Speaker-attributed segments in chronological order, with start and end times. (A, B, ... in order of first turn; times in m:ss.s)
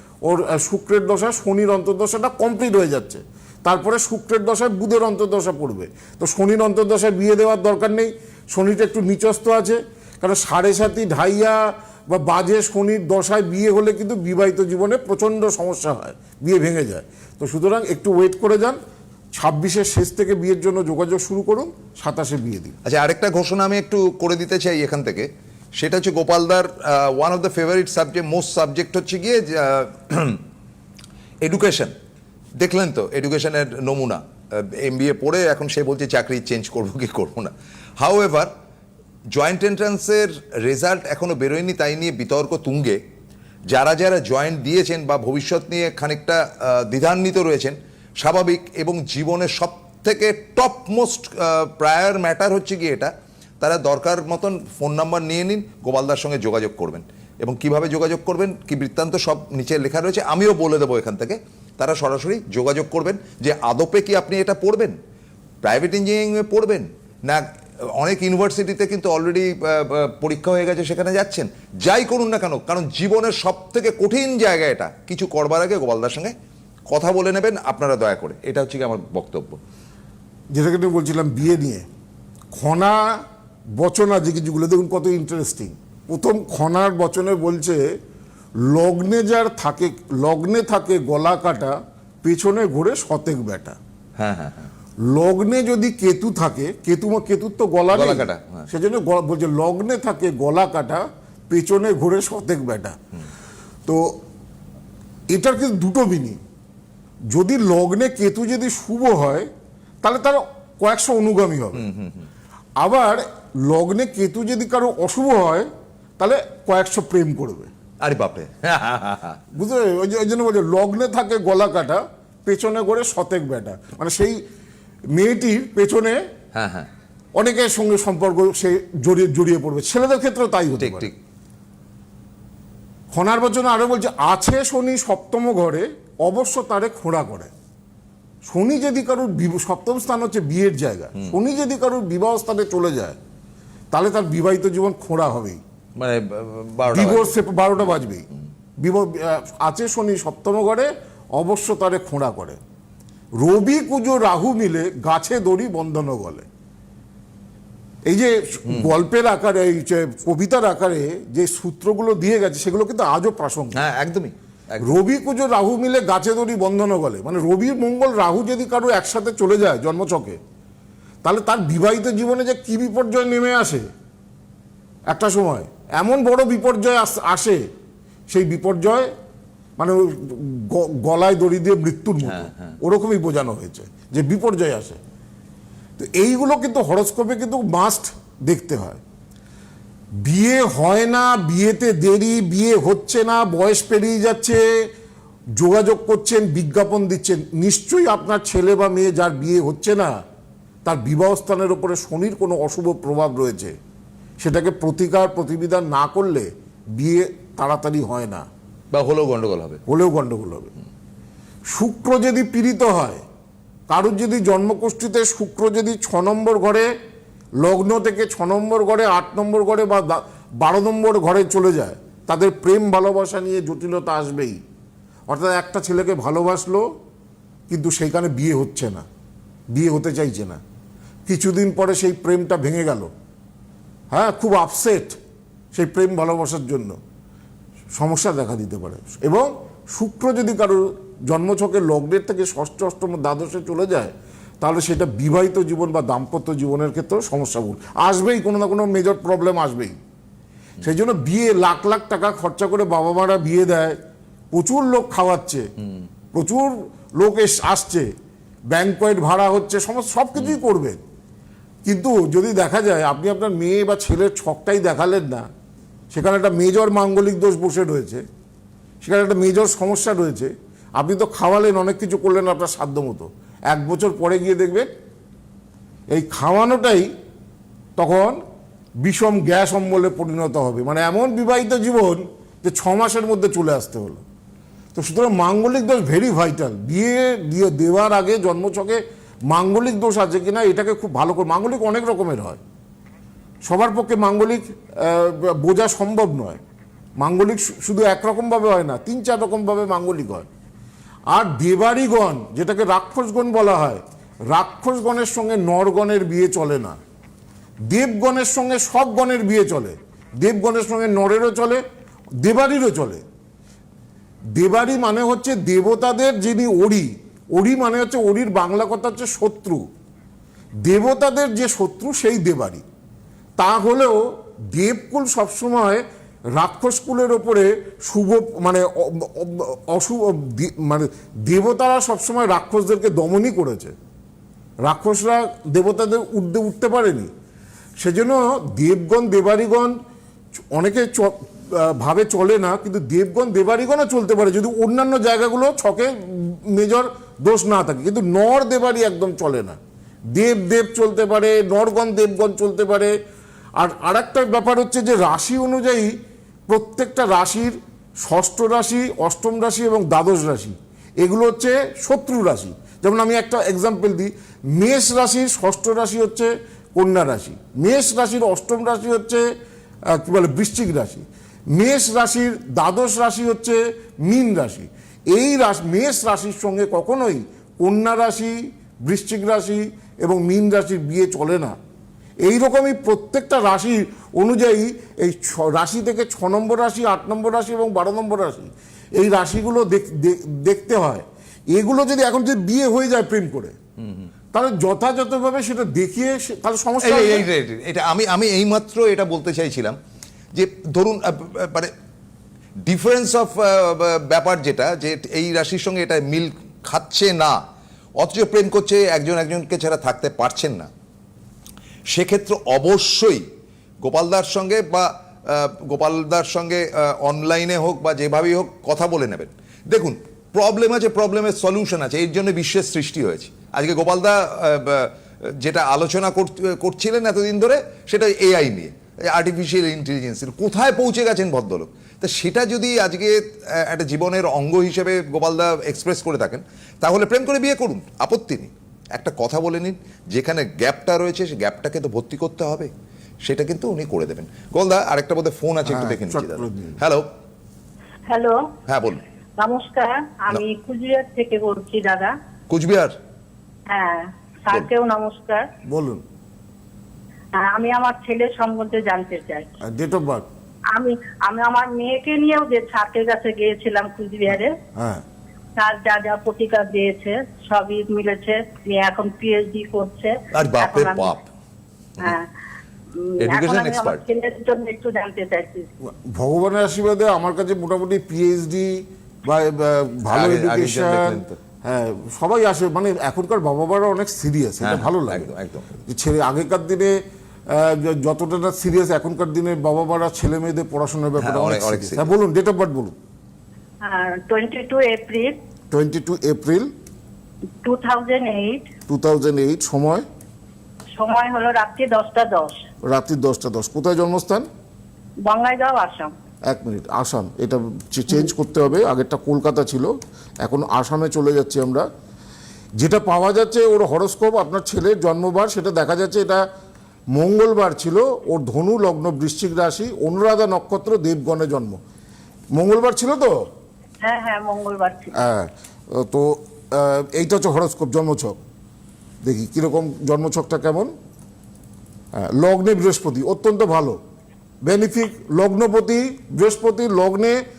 0:00.2-0:18.8 A
0:19.4-0:22.8 A
0:22.8-0:30.4 B
0:31.4-0:31.9 B
0:32.6-0:38.5 B
0:39.3-0:43.0 B
0:43.7-1:05.0 B
1:05.6-1:16.3 B
1:16.9-1:19.6 B
1:20.5-1:21.9 A
1:22.5-1:23.2 A
1:23.8-1:27.9 A
1:28.6-1:33.8 A
1:34.2-1:34.7 B
1:35.0-1:43.0 A
1:37.9-1:38.7 B
1:43.9-1:44.2 A
1:45.3-1:46.4 A
1:47.3-1:49.5 A
1:50.0-1:51.9 A
1:51.8-1:52.3 B
1:52.8-1:55.7 A
1:56.2-1:57.7 A
1:58.0-1:59.4 B
1:59.5-2:04.4 A
2:05.1-2:06.2 A
2:06.5-2:06.9 B
2:07.4-2:11.1 A
2:10.8-2:11.2 B
2:13.1-2:17.5 A
2:18.4-2:23.2 A
2:23.9-2:25.6 A
2:26.0-2:27.4 B
2:26.9-2:28.2 A
2:28.8-2:32.6 A
2:33.4-2:36.5 A
2:38.1-2:43.8 A
2:43.7-2:45.0 B
2:44.8-2:50.4 A
2:51.2-2:53.9 A
2:55.1-2:57.6 A
2:58.3-2:59.1 A
2:59.8-3:05.0 A
3:02.2-3:02.8 B
3:06.0-3:09.0 A
3:10.2-3:14.6 A
3:15.6-3:20.2 A
3:20.8-3:23.8 A
3:24.4-3:28.5 A
3:28.9-3:29.8 B
3:29.9-3:30.7 A
3:31.7-3:33.2 A
3:33.9-3:36.9 A
3:37.6-3:44.6 A
3:45.3-3:46.9 A
3:47.7-3:49.1 A
3:49.7-3:50.6 A
3:51.3-3:53.1 A
3:54.1-3:55.2 A
3:55.7-3:57.0 A
3:58.0-4:10.0 A
4:10.8-4:14.0 A
4:14.5-4:15.7 A
4:16.3-4:18.1 A
4:18.7-4:21.0 A
4:21.8-4:25.5 A
4:26.1-4:28.2 A
4:29.0-4:34.9 A
4:36.1-4:37.1 A
4:38.0-4:38.4 A
4:39.0-4:44.2 A
4:45.0-4:52.6 A
4:53.7-4:56.6 A
4:57.2-5:00.5 A
5:01.3-5:07.0 A
5:07.9-5:11.8 A
5:12.4-5:13.2 A
5:14.6-5:19.8 A
5:20.8-5:22.8 A
5:23.6-5:26.0 A
5:26.6-5:34.0 A
5:34.8-5:37.3 A
5:38.0-5:39.9 A
5:40.7-5:49.8 A
5:50.3-5:53.1 A
5:53.8-5:56.1 A
5:56.7-6:09.4 A
6:10.1-6:21.8 A
6:22.4-6:33.8 A
6:34.0-6:34.3 B
6:34.5-6:37.5 A
6:37.0-6:40.0 B
6:40.5-6:41.9 B
6:42.9-6:47.6 B
6:48.2-6:50.9 B
6:52.1-6:53.4 B
6:54.0-7:22.9 B
7:23.4-7:27.3 B
7:25.9-7:27.0 A
7:28.3-7:28.7 C
7:28.9-7:29.2 B
7:29.6-7:32.3 C
7:32.7-7:33.2 B
7:33.9-7:35.7 C
7:35.9-7:36.2 A
7:37.5-7:39.7 C
7:39.8-7:40.5 A
7:40.9-7:44.8 C
7:45.0-7:45.2 A
7:45.8-7:51.4 C
7:50.5-7:51.5 B
7:52.2-7:52.5 C
7:53.2-7:55.9 C
7:53.4-7:54.2 B
7:56.0-8:05.5 A
8:00.3-8:01.6 B
8:04.8-8:06.0 B
8:06.1-8:07.2 A
8:07.7-8:13.2 A
8:11.4-8:12.3 B
8:14.0-8:15.6 C
8:15.9-8:16.9 A
8:17.8-8:18.9 C
8:19.1-8:20.3 A
8:21.2-8:22.8 C
8:23.1-8:24.7 A
8:25.4-8:26.3 C
8:26.7-8:32.1 A
8:33.0-8:36.6 A
8:37.3-8:42.0 A
8:42.7-8:43.6 A
8:44.2-8:45.3 C
8:45.3-8:48.6 A
8:49.4-8:51.1 A
8:52.4-8:54.2 A
8:54.8-8:57.6 A